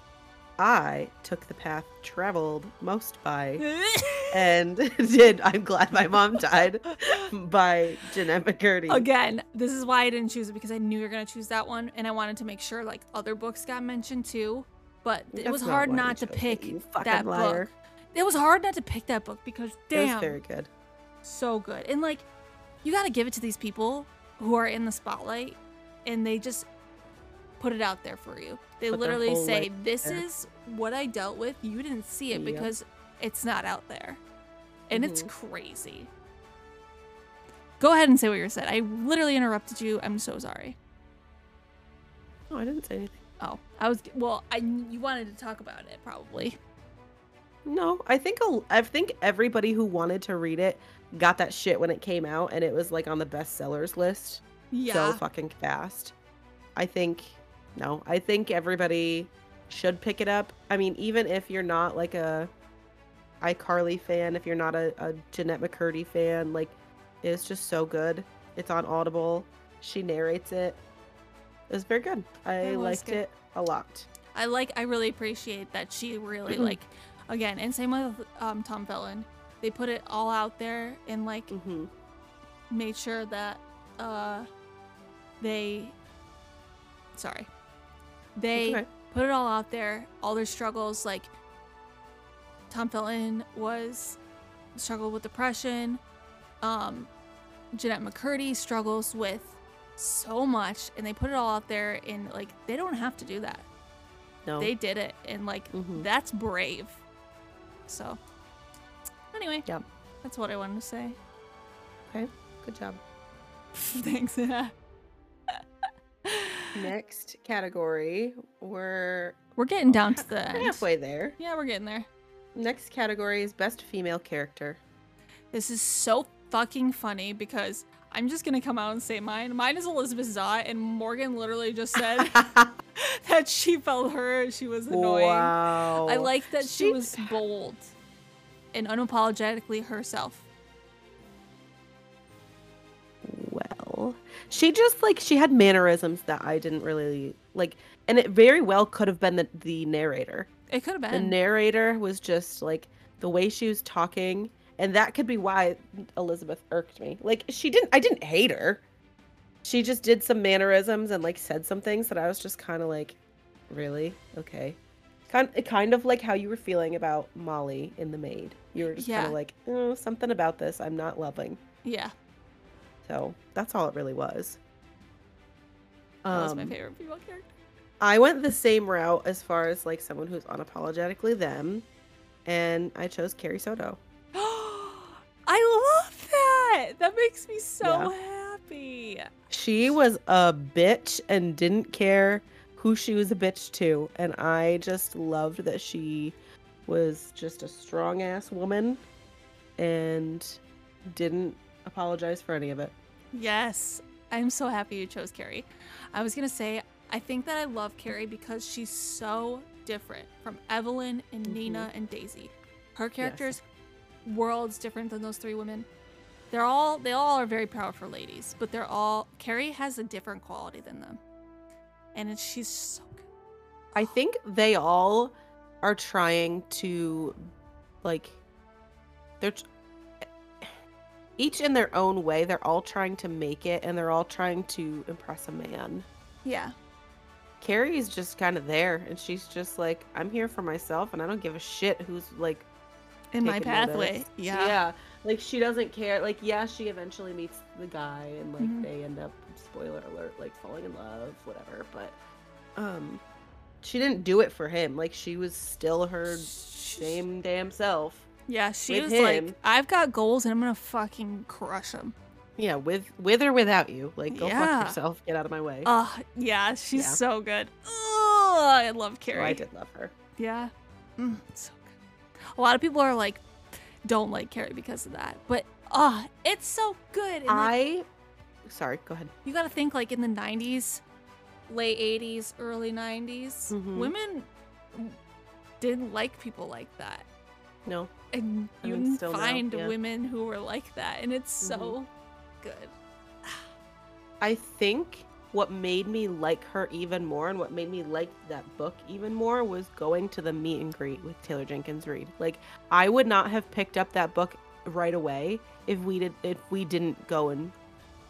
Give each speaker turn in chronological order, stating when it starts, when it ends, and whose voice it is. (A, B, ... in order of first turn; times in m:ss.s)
0:00.6-0:03.7 A
0:03.6-0:04.5 B
0:04.3-0:09.1 A
0:07.0-0:07.3 B
0:08.9-0:20.4 B
0:15.3-0:17.7 A
0:19.9-0:20.7 A
0:21.2-0:22.3 B
0:22.8-0:26.7 B
0:27.6-0:34.2 B
0:28.9-0:30.2 A
0:32.3-0:32.7 A
0:34.9-0:36.1 B
0:34.9-0:35.3 A
0:37.8-0:40.8 B
0:42.5-0:43.2 A
0:43.4-0:46.6 B
0:47.6-0:56.2 A
0:54.7-0:55.2 B
0:56.8-1:02.5 A
1:03.4-1:10.8 A
1:11.7-1:14.1 A
1:12.6-1:13.2 B
1:14.3-1:21.5 B
1:16.5-1:16.8 A
1:21.5-1:21.9 A
1:22.7-1:24.5 B
1:25.4-1:26.0 B
1:27.2-1:27.5 B
1:28.4-1:31.3 B
1:28.6-1:28.9 A
1:32.7-1:34.2 B
1:34.8-1:36.0 B
1:36.6-1:37.1 B
1:37.7-1:43.7 B
1:44.5-1:44.7 A
1:44.6-1:47.0 B
1:45.7-1:46.1 A
1:47.9-1:48.2 B
1:49.3-1:49.7 B
1:50.2-1:51.2 B
1:52.1-1:53.0 A
1:53.7-1:54.7 B
1:56.3-1:56.8 B
1:56.8-1:59.4 A
1:59.6-2:00.8 B
1:59.9-2:01.4 A
2:01.4-2:02.1 B
2:02.6-2:04.8 A
2:05.5-2:12.4 B
2:12.0-2:12.7 A
2:13.0-2:17.9 B
2:14.9-2:17.3 A
2:18.7-2:20.4 B
2:23.2-2:30.5 A
2:30.7-2:31.4 B
2:31.1-2:38.8 A
2:39.6-2:43.2 A
2:43.7-2:44.8 A
2:45.3-2:51.6 A
2:48.9-2:49.4 B
2:51.8-2:52.1 B
2:53.0-2:54.6 A
2:56.2-2:56.8 A
2:56.3-2:57.5 B
2:58.0-3:01.9 A
3:02.5-3:04.0 A
3:04.4-3:09.3 B
3:07.8-3:08.1 A
3:09.5-3:19.0 A
3:19.8-3:22.9 A
3:23.3-3:33.6 B
3:31.5-3:31.9 A
3:33.2-3:33.6 A
3:34.2-3:35.9 B
3:36.5-3:41.2 B
3:42.1-3:43.2 B
3:43.9-3:47.4 A
3:48.0-3:48.4 A
3:51.4-3:56.1 A
3:56.4-3:56.7 B
3:57.6-4:02.7 A
4:03.3-4:04.8 B
4:03.4-4:12.2 A
4:08.6-4:08.9 B
4:12.8-4:13.2 A
4:13.8-4:18.3 A
4:16.3-4:17.2 B
4:18.5-4:22.2 B
4:18.9-4:19.6 A
4:22.6-4:25.9 A
4:24.3-4:25.0 B
4:25.8-4:29.6 B
4:27.0-4:27.2 A
4:29.3-4:30.1 A
4:30.4-4:31.9 B
4:32.5-4:33.4 B
4:34.1-4:37.7 B
4:37.5-4:38.1 A
4:38.7-4:39.3 A
4:39.4-4:41.0 B
4:41.7-4:45.2 B
4:43.7-4:44.1 A
4:45.8-4:47.3 B
4:47.9-4:48.1 A
4:48.3-4:52.1 B
4:48.8-4:49.9 A
4:51.6-4:52.0 A
4:52.6-4:53.7 B
4:54.4-5:07.8 A